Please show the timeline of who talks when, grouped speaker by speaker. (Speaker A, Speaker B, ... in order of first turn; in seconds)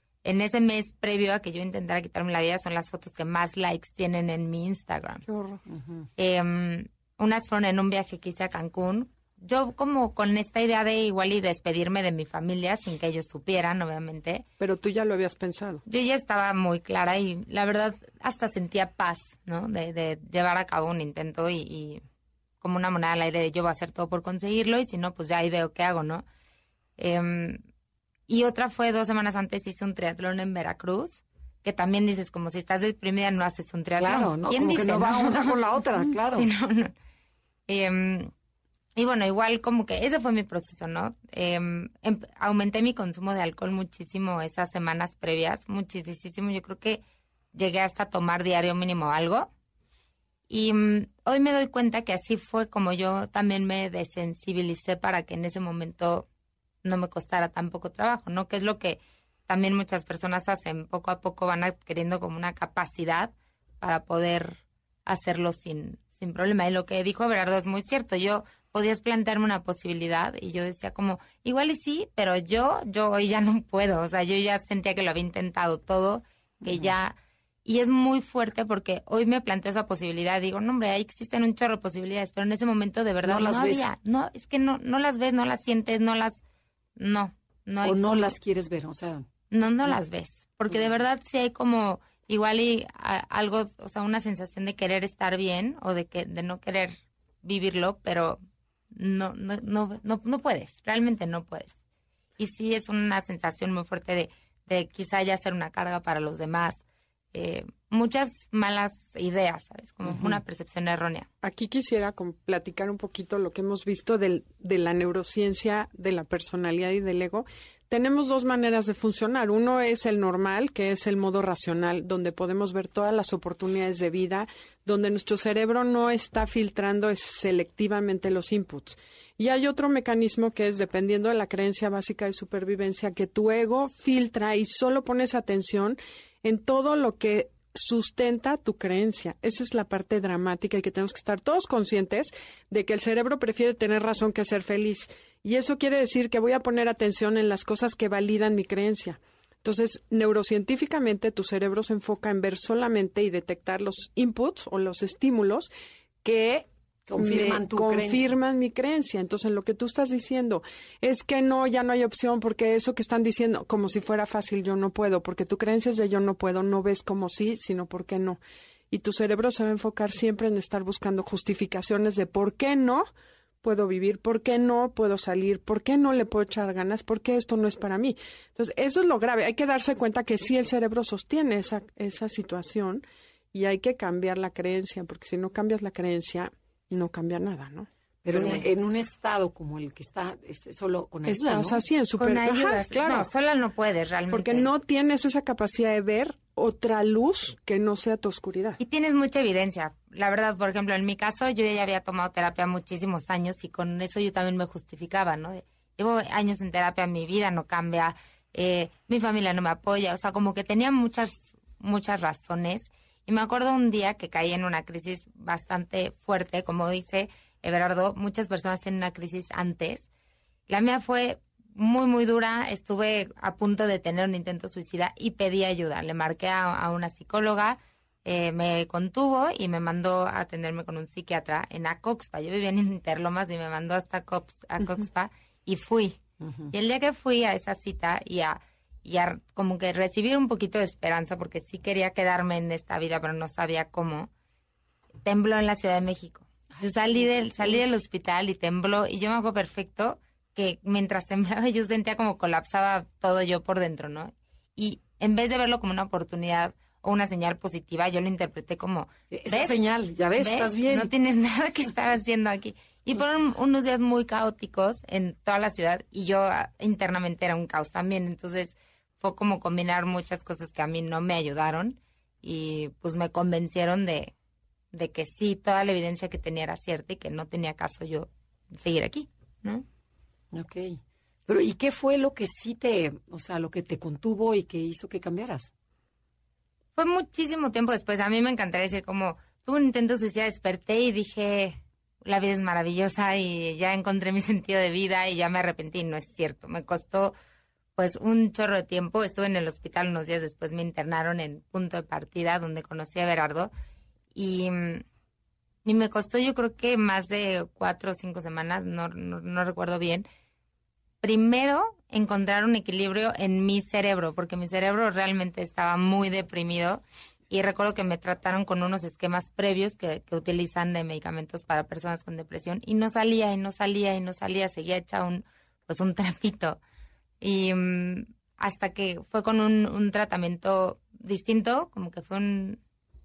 Speaker A: 0.2-5.2, 6.2-14.4, 15.9-22.0, 22.6-26.3, 27.0-27.6, 28.3-36.9, 37.7-38.3, 39.0-47.0, 47.5-49.5, 50.5-56.3, 56.8-86.4, 87.0-88.3, 89.5-98.4, 98.9-101.7, 102.4-111.3, 188.3-188.6, 192.2-194.7, 198.8-220.1, 220.7-236.2, 236.7-244.3, 245.2-259.8, 260.4-274.3, 274.9-279.9, 287.0-297.3, 298.0-303.7, 304.3-305.1, 305.9-310.3, 311.2-326.8, 327.4-332.8
Speaker B: 5.3-5.6, 14.6-15.8, 111.4-155.7, 156.2-168.4, 168.9-173.1, 173.6-188.6, 191.3-193.3, 194.3-198.8
Speaker C: 5.7-6.1, 34.0-36.5, 76.6-76.9, 83.2-83.9, 87.8-89.3, 90.7-91.0, 110.0-110.4, 157.1-158.2, 188.2-191.8, 236.4-236.7, 246.7-247.9, 259.3-261.1, 280.5-285.7